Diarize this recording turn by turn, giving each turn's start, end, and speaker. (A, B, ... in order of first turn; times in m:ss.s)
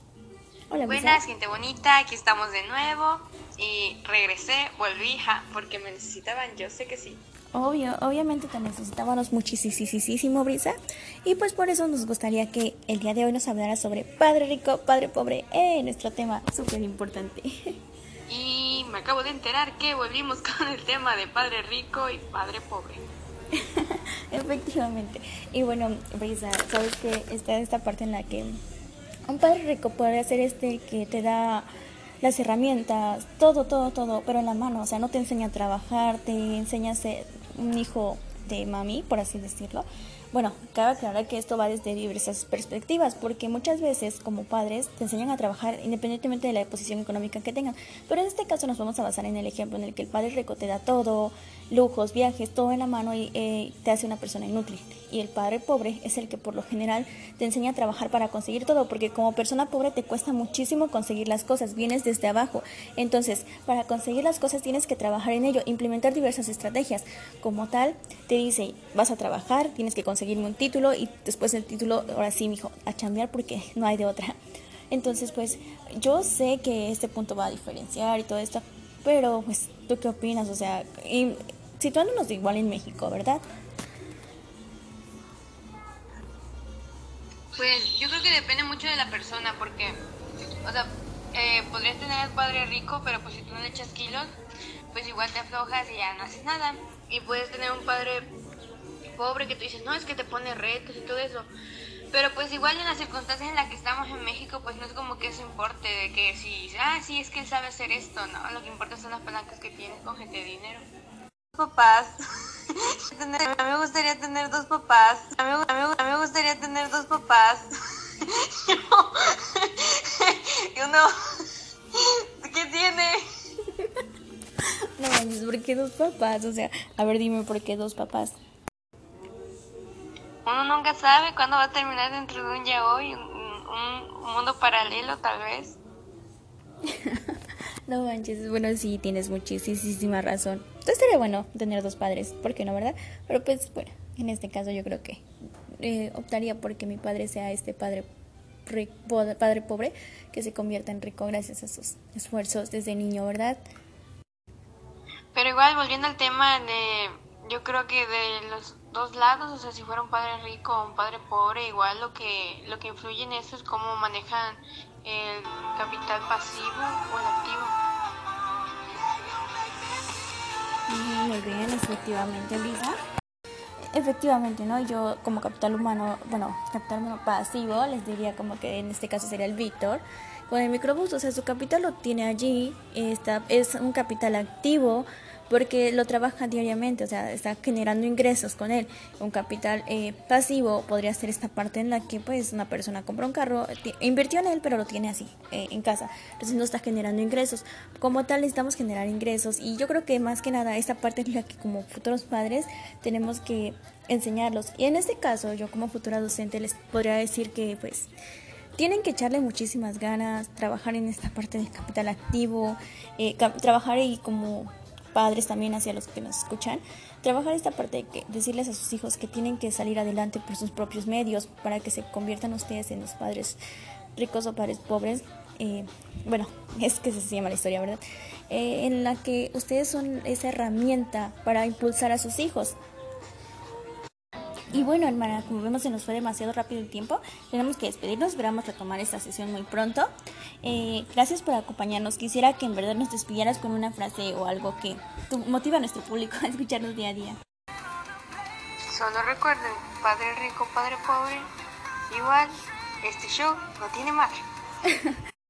0:00.7-0:01.2 A
0:00.8-0:07.2 B
0:07.5-0:17.5 A
0:18.3-0:23.0 B
0:23.6-0:28.6 A
0:29.3-0:31.7 A
0:32.2-1:14.4 A
1:14.9-1:23.4 A
1:27.6-1:30.0 B
1:30.6-1:34.3 B
1:34.9-1:38.3 B
1:39.2-1:41.5 B
1:42.1-1:50.9 B
1:51.6-1:52.2 B
1:52.7-2:01.1 B
2:02.0-2:03.2 B
2:05.0-2:08.4 A
2:10.4-2:15.8 B
2:16.9-2:17.4 A
2:17.9-2:25.2 A
2:25.8-2:28.1 A
2:28.7-2:33.6 A
2:35.3-2:47.8 B
2:50.9-2:53.0 A
2:53.9-3:28.1 A
3:28.8-3:43.6 A
3:44.2-3:52.8 A
3:54.7-4:00.1 A
4:00.6-4:07.4 A
4:08.9-4:11.5 B
4:12.1-4:14.4 B
4:14.9-4:15.2 A